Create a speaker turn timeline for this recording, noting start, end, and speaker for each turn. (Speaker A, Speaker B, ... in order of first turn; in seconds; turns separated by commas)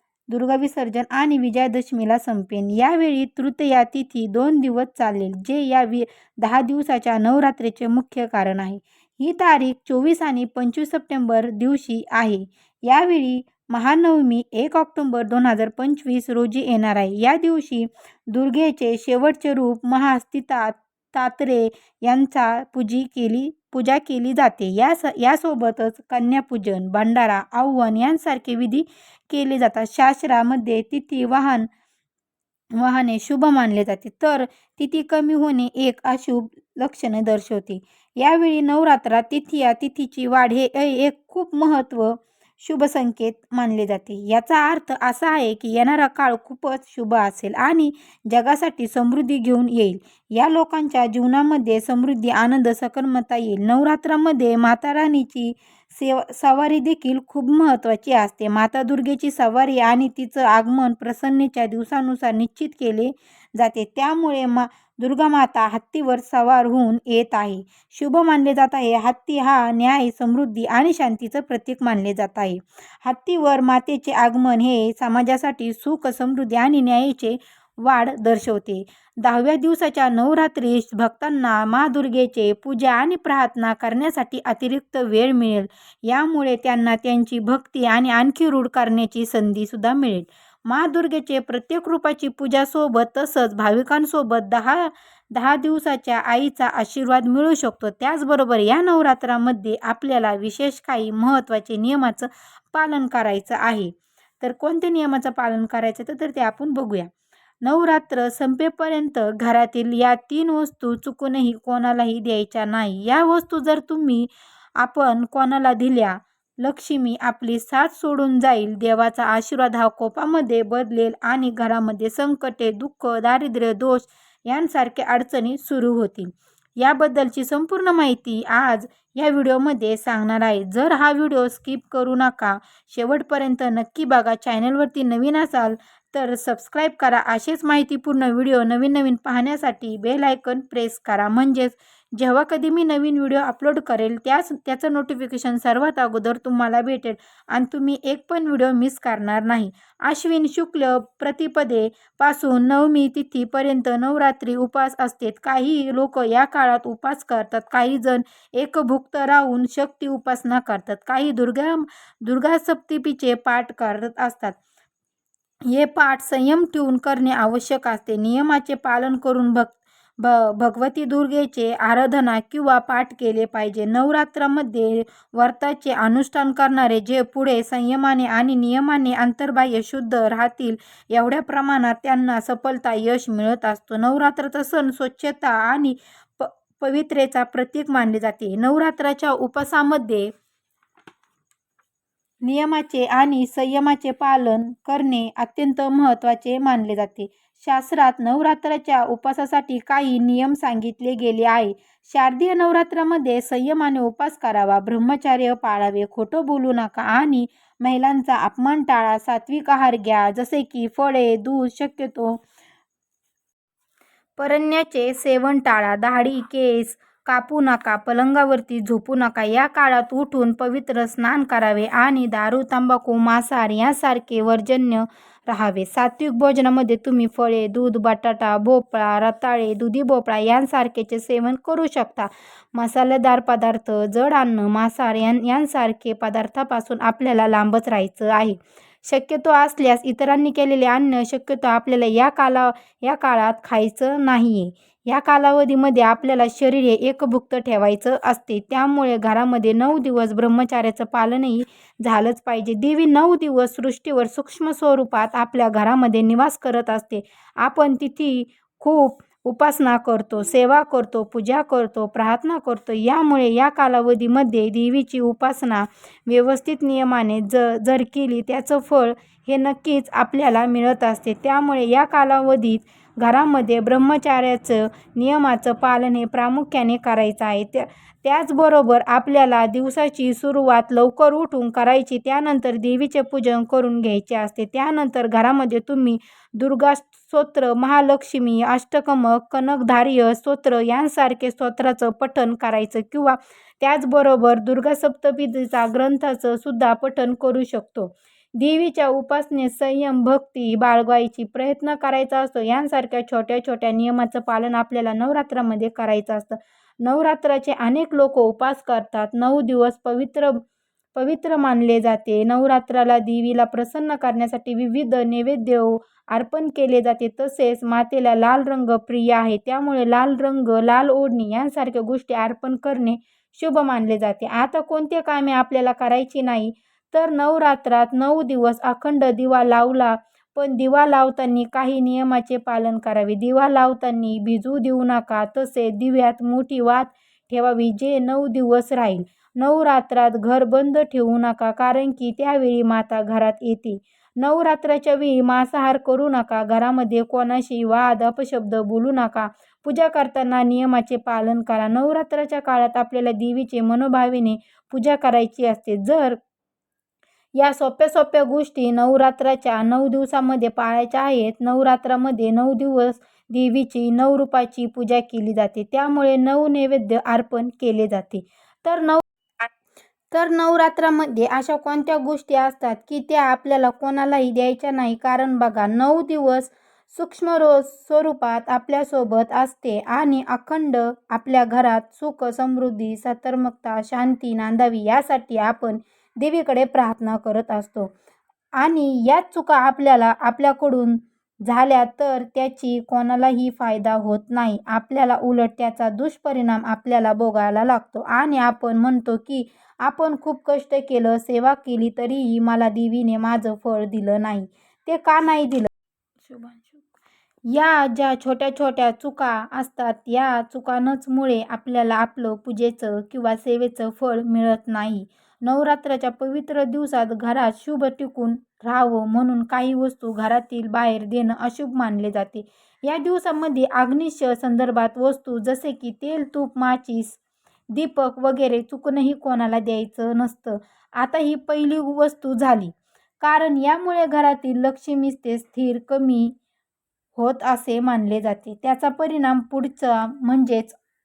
Speaker A: 0.3-31.7, Speaker A: 32.8-107.1, Speaker A: 107.6-114.3, Speaker A: 114.8-164.6, Speaker A: 165.7-190.3, Speaker A: 192.4-212.4, Speaker A: 214.4-310.6, Speaker A: 311.1-356.4, Speaker A: 357.6-369.7, Speaker A: 370.3-388.1, Speaker A: 388.8-405.9, Speaker A: 406.4-407.0, Speaker A: 407.7-427.4, Speaker A: 427.9-436.5, Speaker A: 437.4-441.0